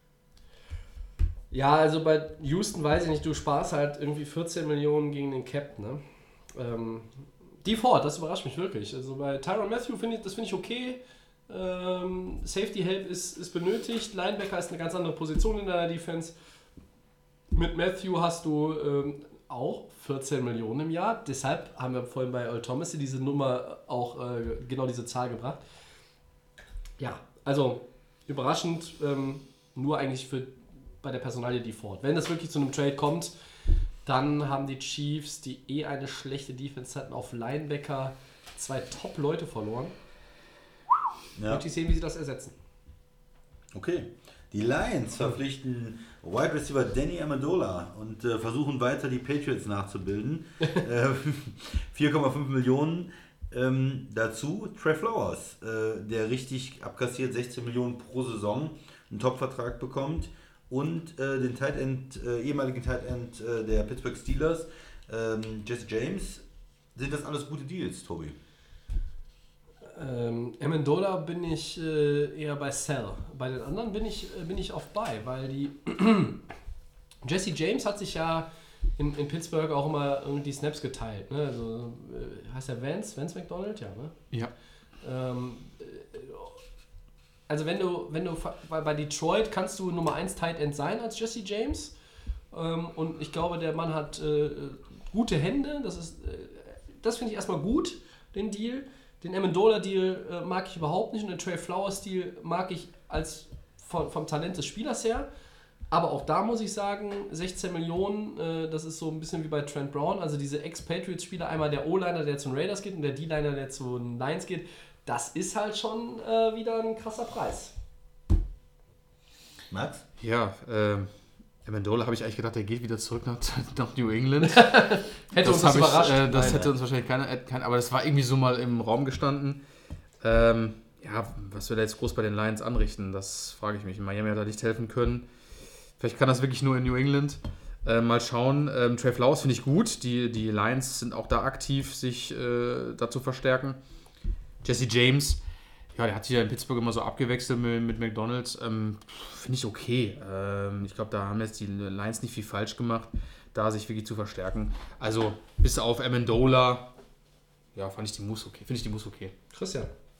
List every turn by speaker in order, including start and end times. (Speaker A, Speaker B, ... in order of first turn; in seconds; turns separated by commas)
Speaker A: 1.5-6.0, Speaker A: 6.5-16.3, Speaker A: 17.5-25.6, Speaker A: 27.0-33.3, Speaker A: 34.0-39.9, Speaker B: 41.4-41.6, Speaker A: 41.5-42.5, Speaker B: 43.7-66.4, Speaker B: 66.9-68.4, Speaker A: 69.9-76.4, Speaker A: 77.2-78.5, Speaker A: 79.0-84.2, Speaker A: 85.0-86.5, Speaker A: 87.5-91.9, Speaker A: 92.5-105.3, Speaker A: 105.9-117.7, Speaker B: 119.7-120.0, Speaker C: 120.2-121.1, Speaker C: 121.6-124.8, Speaker A: 124.4-126.7, Speaker C: 125.3-129.6, Speaker B: 126.4-126.7, Speaker C: 130.2-135.2, Speaker C: 136.0-143.8, Speaker C: 144.6-145.4, Speaker C: 145.9-156.9, Speaker C: 157.7-159.3, Speaker A: 159.5-159.9